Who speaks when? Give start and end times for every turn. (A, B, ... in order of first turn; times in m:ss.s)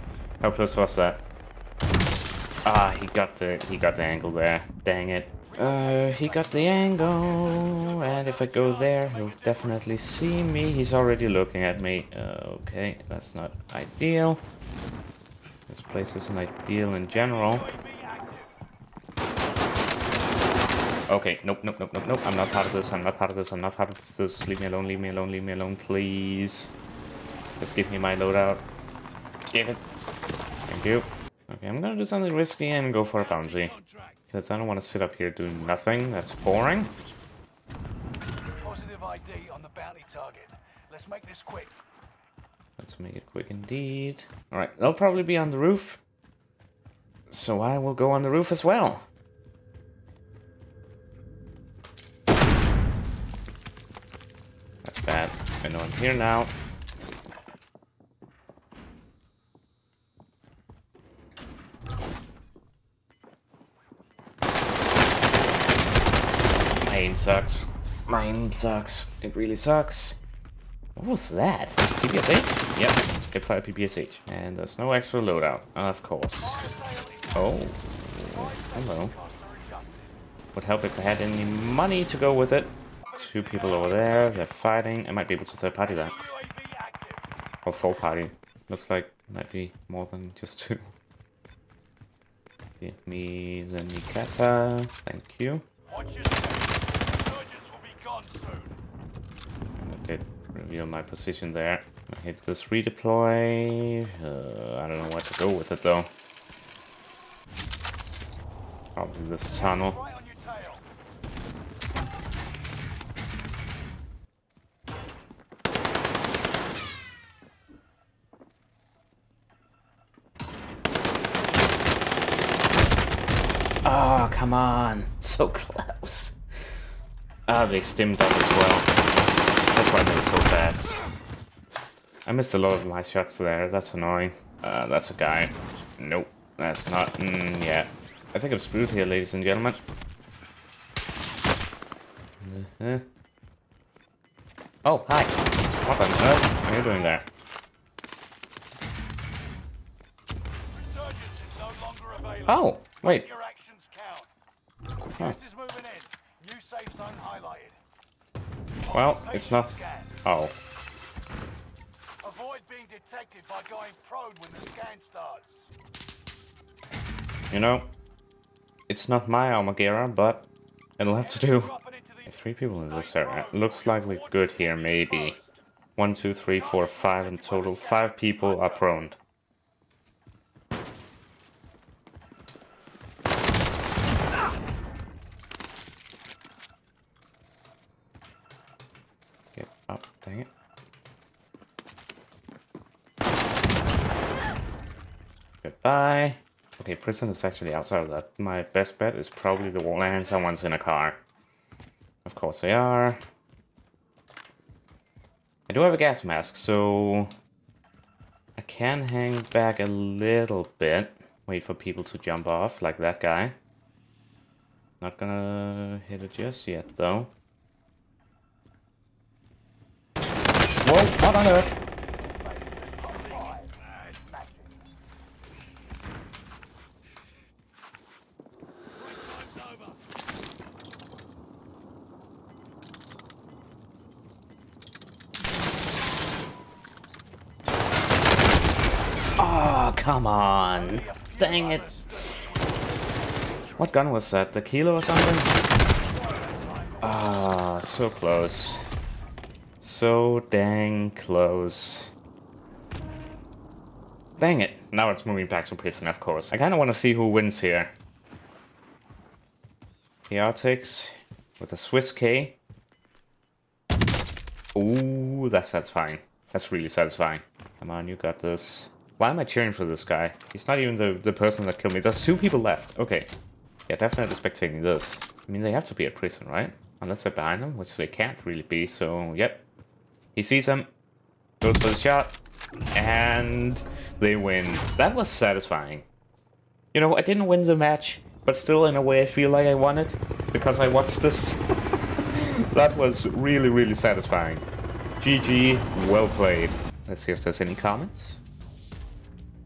0:00.4-0:01.2 A
0:02.6-0:14.4 A
0:05.4-0:09.9 B
0:15.7-0:17.7 A
0:17.1-0:18.6 B
0:21.1-0:26.7 A
0:27.6-0:28.6 A
0:29.5-0:29.8 A
0:30.7-0:33.7 A
0:33.1-0:34.3 B
0:34.3-0:36.9 A
0:38.6-0:41.8 B
0:42.8-0:46.0 A
0:47.3-0:49.0 A
0:54.8-0:56.5 A
1:06.8-1:10.2 A
1:11.0-1:16.6 A
1:16.4-1:17.7 B
1:17.3-1:19.1 A
1:18.3-1:20.2 B
1:20.5-1:26.1 A
1:23.0-1:24.8 B
1:25.8-1:27.3 B
1:27.6-1:30.9 A
1:32.8-1:35.6 A
1:35.9-1:38.8 B
1:39.8-1:46.1 A
1:49.0-1:50.0 A
1:49.5-1:50.8 B
2:03.8-2:06.4 A
2:07.5-2:08.9 A
2:09.7-2:11.0 A
2:12.2-2:19.8 A
2:22.4-2:23.0 A
2:24.8-2:27.2 A
2:30.7-2:34.3 B
2:32.5-2:33.3 A
2:35.2-2:37.8 B
2:38.8-2:40.2 B
2:38.9-2:39.7 A
2:40.2-2:40.5 A
2:42.2-2:45.7 B
2:47.5-2:47.9 A
2:48.9-2:51.7 A
2:51.2-2:55.6 B
2:52.3-2:55.4 A
2:56.0-2:59.2 A
2:56.5-2:58.9 B
3:09.5-3:10.5 A
3:15.6-3:21.2 A
3:22.2-3:23.2 A
3:25.7-3:27.3 A
3:28.6-3:33.6 A
3:35.0-3:37.3 A
3:40.8-3:41.8 A
3:42.4-3:44.7 B
3:48.9-3:50.0 B
3:59.4-4:01.9 A
4:00.7-4:03.6 B
4:03.8-4:05.6 A
4:05.8-4:07.5 B
4:07.0-4:08.8 A
4:09.8-4:12.1 A
4:14.4-4:17.9 A
4:20.3-4:22.6 A
4:24.7-4:33.3 A
4:33.9-4:39.6 A
4:40.4-4:40.9 A
4:41.6-4:42.4 A
4:42.9-4:46.1 A
4:46.9-4:51.6 A
4:52.3-4:54.6 A
4:55.2-4:58.4 A